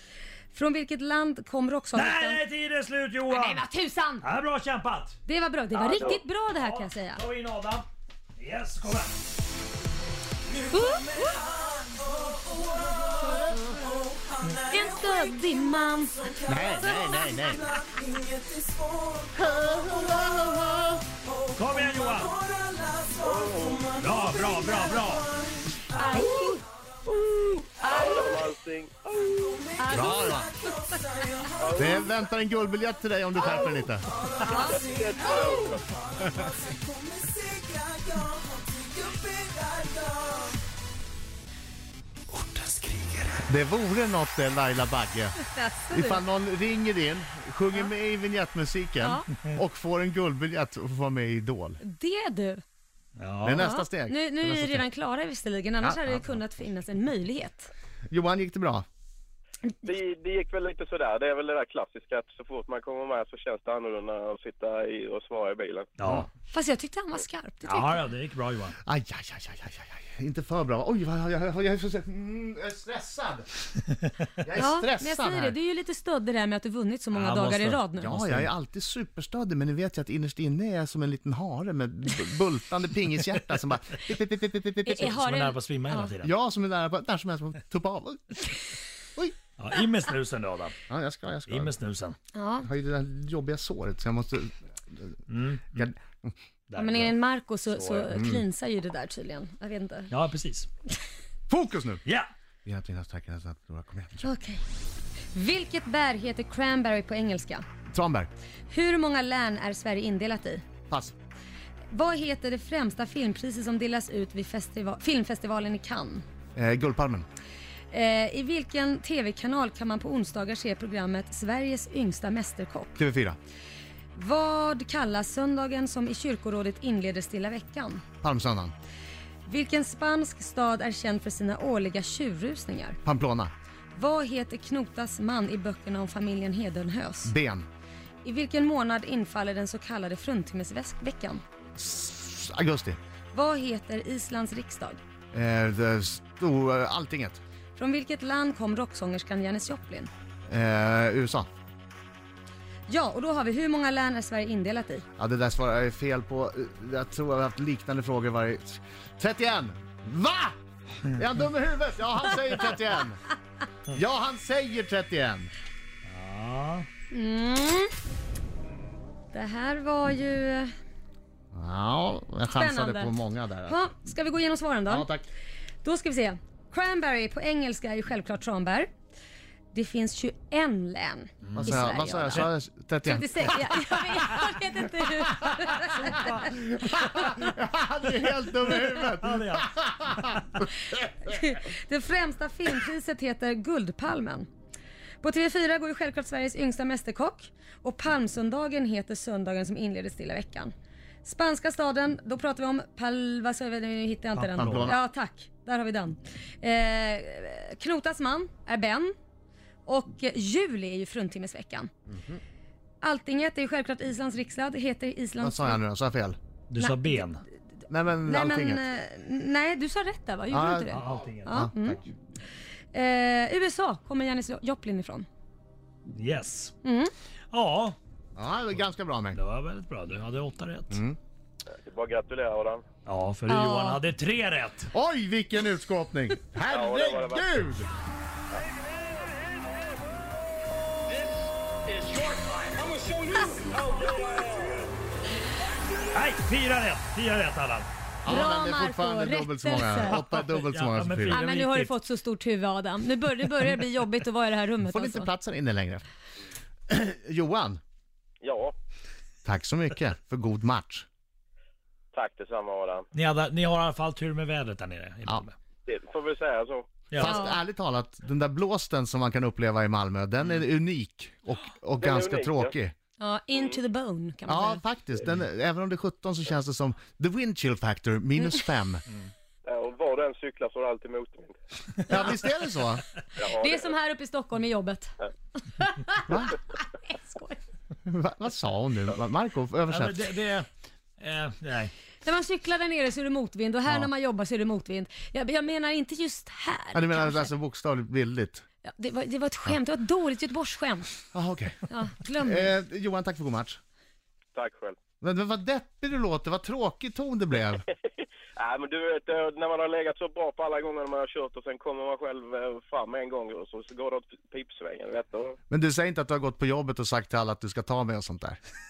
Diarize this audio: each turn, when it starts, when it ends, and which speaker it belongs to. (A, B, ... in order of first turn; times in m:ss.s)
0:00.5-0:02.4 A
0:01.9-0:03.6 B
0:03.3-0:04.3 A
0:04.2-0:05.2 B
0:05.3-0:07.2 A
0:05.8-0:09.1 B
0:05.8-0:06.2 C
0:10.7-0:11.4 A
0:10.9-0:15.2 D
0:14.6-0:16.9 A
0:16.2-0:20.6 D
0:16.4-0:17.7 E
0:19.4-0:21.0 E
0:21.3-0:26.0 D
0:21.5-0:22.4 B
0:23.2-0:23.9 C
0:24.0-0:25.3 B
0:25.9-0:26.6 A
0:27.2-0:29.3 C
0:27.8-0:28.4 A
0:29.2-0:31.7 D
0:29.8-0:30.4 A
0:29.9-0:30.6 E
0:31.6-0:32.1 C
0:31.8-0:34.1 E
0:34.2-0:40.6 D
0:34.4-0:34.9 A
0:34.5-0:35.8 C
0:42.3-0:43.4 B
0:43.4-0:45.4 E
0:45.4-0:46.2 A
0:45.9-0:51.8 E
0:49.0-0:49.3 A
0:51.8-0:52.6 A
0:53.2-0:53.7 B
0:53.4-0:54.8 E
0:53.6-0:57.7 A
0:55.8-0:56.2 E
0:58.1-0:58.8 E
0:59.8-1:05.9 C
1:06.0-1:06.3 B
1:06.5-1:08.0 A
1:07.6-1:08.8 B
1:08.8-1:13.5 E
1:14.4-1:15.6 E
1:14.6-1:18.5 A
1:17.1-1:17.8 B
1:18.0-1:25.1 E
1:24.8-1:26.1 A
1:25.0-1:26.3 B
1:26.2-1:28.6 E
1:29.6-1:30.7 B
1:30.9-1:31.7 E
1:31.5-1:32.2 B
1:32.3-1:32.7 A
1:32.6-1:35.2 E
1:35.3-1:35.9 B
1:35.8-1:36.3 E
1:36.7-1:37.1 B
1:36.8-1:40.1 A
1:37.7-1:38.1 B
1:38.1-1:38.4 E
1:40.1-1:40.7 B
1:41.5-1:42.0 E
1:42.0-1:42.3 B
1:42.6-1:44.3 E
1:44.2-1:44.6 A
1:45.3-1:47.6 A
1:47.9-1:48.3 E
1:48.7-1:50.6 A
1:50.9-1:51.1 E
1:51.9-1:56.2 A
1:56.6-1:57.2 E
1:57.9-2:03.0 A
2:03.0-2:03.4 E
2:04.1-2:08.0 A
2:08.2-2:08.7 E
2:09.4-2:13.0 A
2:13.0-2:13.5 E
2:13.9-2:17.3 A
2:17.2-2:17.7 E
2:18.2-2:21.4 A
2:21.8-2:23.0 E
2:23.3-2:25.0 A
2:25.3-2:27.4 E
2:27.8-2:30.1 A
2:30.5-2:31.5 E
2:32.9-2:35.1 A
2:35.2-2:43.2 E
2:43.9-2:45.5 E
2:46.0-2:46.9 B
2:47.1-2:47.9 A
2:49.3-2:50.7 A
2:51.5-2:53.8 E
2:52.5-2:53.1 A
2:53.7-2:55.1 A
2:54.9-2:55.3 E
2:55.8-2:58.9 A
2:59.7-3:02.5 A
3:01.4-3:02.4 B
3:01.6-3:03.6 E
3:03.0-3:07.4 A
3:06.0-3:10.9 E
3:08.8-3:09.7 B
3:11.2-3:14.5 A
3:15.2-3:20.7 A
3:21.2-3:29.1 A
3:24.4-3:25.0 E
3:24.6-3:24.9 B
3:29.8-3:31.9 A
3:32.1-3:32.4 E
3:33.0-3:35.8 A
3:35.4-3:36.4 E
3:36.7-3:37.4 B
3:36.8-3:37.2 A
3:37.9-3:38.8 E
3:38.2-3:42.0 A
3:40.5-3:42.0 E
3:40.9-3:41.6 B
3:42.9-3:45.2 A
3:46.1-3:46.8 B
3:46.8-3:47.1 A
3:47.5-3:48.0 B
3:48.4-3:49.4 E
3:49.3-3:51.0 B
3:50.9-3:51.2 E
3:51.7-3:52.8 C
3:53.1-3:54.9 B
3:53.5-3:54.0 A
3:54.9-3:57.9 E
3:56.7-3:57.5 C
4:02.9-4:03.8 D
4:04.2-4:04.8 C
4:06.1-4:07.9 B
4:08.2-4:11.4 E
4:08.2-4:10.2 A
4:10.1-4:11.9 B
4:11.3-4:15.3 A
4:14.8-4:16.0 E
4:16.9-4:17.8 E
4:18.4-4:18.7 C
4:19.4-4:21.1 E
4:22.1-4:23.1 C
4:23.1-4:25.5 B
4:25.9-4:27.0 C
4:27.1-4:27.4 B
4:27.1-4:32.9 E
4:27.2-4:27.6 A
4:32.0-4:32.8 C
4:33.2-4:34.8 A
4:34.5-4:39.1 E
4:39.6-4:41.6 C
4:42.1-4:43.0 E
4:43.4-4:43.9 C
4:43.4-4:45.1 A
4:45.7-4:47.6 A
4:46.3-4:46.6 E
4:48.1-4:50.2 E
4:49.9-4:50.7 B
4:51.2-4:51.9 B
4:52.2-4:57.5 A
4:56.9-4:58.6 E
4:58.8-5:01.1 A
5:01.3-5:01.8 E
5:01.9-5:02.7 A
5:02.4-5:03.8 E
5:04.6-5:05.0 C
5:05.2-5:07.8 E
5:08.6-5:15.6 C
5:15.7-5:18.6 E